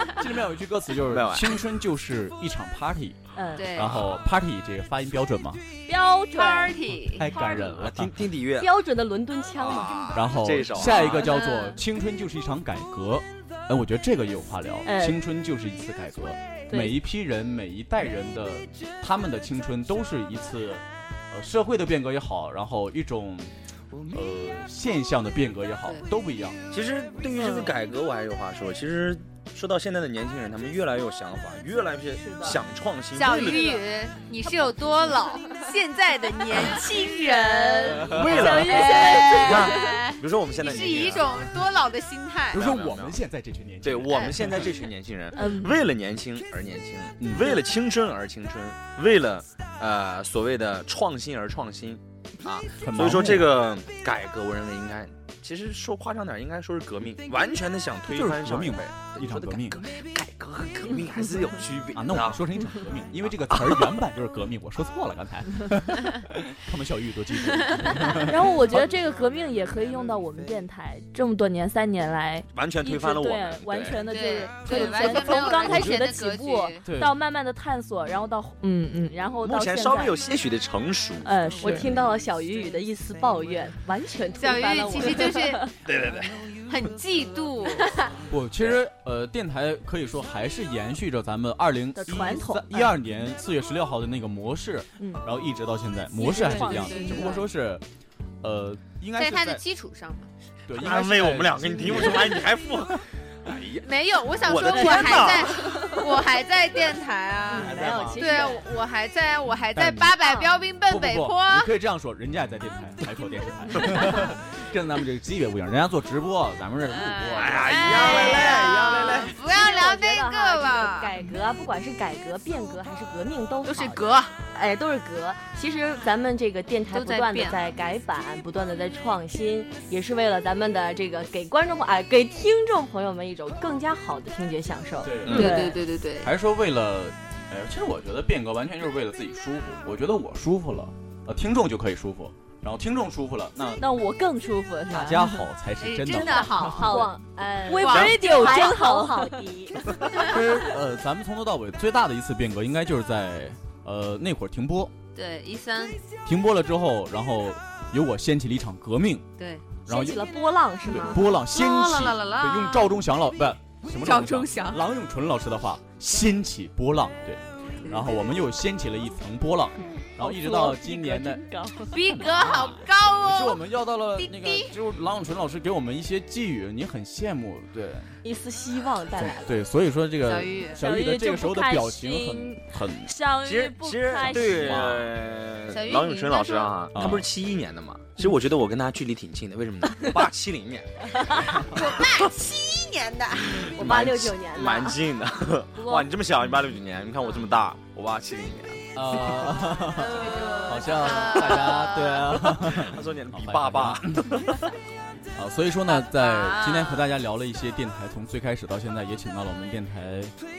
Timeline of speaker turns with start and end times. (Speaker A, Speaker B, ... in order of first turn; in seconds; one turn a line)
Speaker A: 0.2-3.2
Speaker B: 1.1-1.6
Speaker C: 3.4-3.7
Speaker D: 3.6-4.2
Speaker A: 3.7-5.6
Speaker C: 5.9-6.8
Speaker D: 6.3-7.3
Speaker A: 7.2-8.2
Speaker B: 7.6-8.8
Speaker E: 8.6-10.2
Speaker B: 9.6-11.3
Speaker A: 10.1-23.5
Speaker D: 11.1-11.8
Speaker C: 14.8-15.2
Speaker C: 16.7-16.9
Speaker A: 24.1-26.6
Speaker B: 26.7-33.8
Speaker C: 27.4-27.7
Speaker C: 32.2-32.6
Speaker D: 33.1-42.6
Speaker C: 37.7-40.0
Speaker A: 37.8-39.1
Speaker B: 38.2-41.5
Speaker A: 42.5-44.7
Speaker B: 42.5-43.2
Speaker B: 43.8-62.4
Speaker C: 45.3-45.8
Speaker A: 47.2-47.6
Speaker A: 52.8-53.6
Speaker A: 58.1-59.8
Speaker A: 61.9-68.8
Speaker B: 63.5-63.9
Speaker C: 68.2-80.2
Speaker B: 72.5-74.1
Speaker D: 74.1-76.8
Speaker A: 74.7-76.0
Speaker A: 76.8-77.2
Speaker B: 79.4-81.3
Speaker C: 81.2-81.9
Speaker E: 81.6-85.5
Speaker D: 84.4-85.7
Speaker B: 85.9-86.5
Speaker D: 86.7-88.1
Speaker A: 88.3-97.8
Speaker C: 92.0-92.9
Speaker C: 96.2-97.4
Speaker D: 96.4-97.4
Speaker A: 98.4-99.6
Speaker D: 99.2-100.3
Speaker A: 100.7-102.6
Speaker B: 100.7-103.9
Speaker D: 103.8-111.7
Speaker B: 104.4-105.8
Speaker C: 104.8-105.8
Speaker E: 107.5-108.7
Speaker A: 107.6-108.2
Speaker B: 107.7-108.2
Speaker A: 109.8-110.3
Speaker A: 110.9-118.4
Speaker D: 116.9-121.2
Speaker B: 117.3-119.4
Speaker E: 117.9-135.5
Speaker D: 123.6-124.4
Speaker D: 126.9-127.6
Speaker A: 135.0-135.6
Speaker D: 135.3-136.3
Speaker C: 135.3-135.8
Speaker A: 136.2-143.8
Speaker C: 143.8-145.4
Speaker A: 144.9-146.9
Speaker D: 145.8-147.0
Speaker C: 146.6-147.1
Speaker E: 146.7-149.9
Speaker C: 147.7-149.4
Speaker D: 147.8-148.8
Speaker A: 150.2-154.9
Speaker D: 155.2-156.0
Speaker A: 156.3-159.3
Speaker D: 159.4-159.7
Speaker A: 159.9-160.2
Speaker E: 159.9-161.2
Speaker A: 160.9-171.4
Speaker D: 161.2-163.0
Speaker D: 164.0-164.8
Speaker D: 167.8-168.2
Speaker C: 170.2-172.0
Speaker D: 171.9-173.6
Speaker A: 172.0-178.2
Speaker D: 174.2-174.7
Speaker E: 178.2-179.6
Speaker A: 179.2-183.1
Speaker D: 180.2-180.8
Speaker C: 180.8-184.9
Speaker B: 183.4-192.3
Speaker A: 184.2-185.1
Speaker D: 185.7-186.8
Speaker A: 186.9-187.3
Speaker D: 191.7-193.7
Speaker B: 193.4-198.8
Speaker E: 193.8-195.0
Speaker C: 195.8-196.1
Speaker A: 198.9-204.4
Speaker D: 200.0-202.3
Speaker B: 202.7-204.7
Speaker A: 205.3-210.3
Speaker D: 205.9-207.1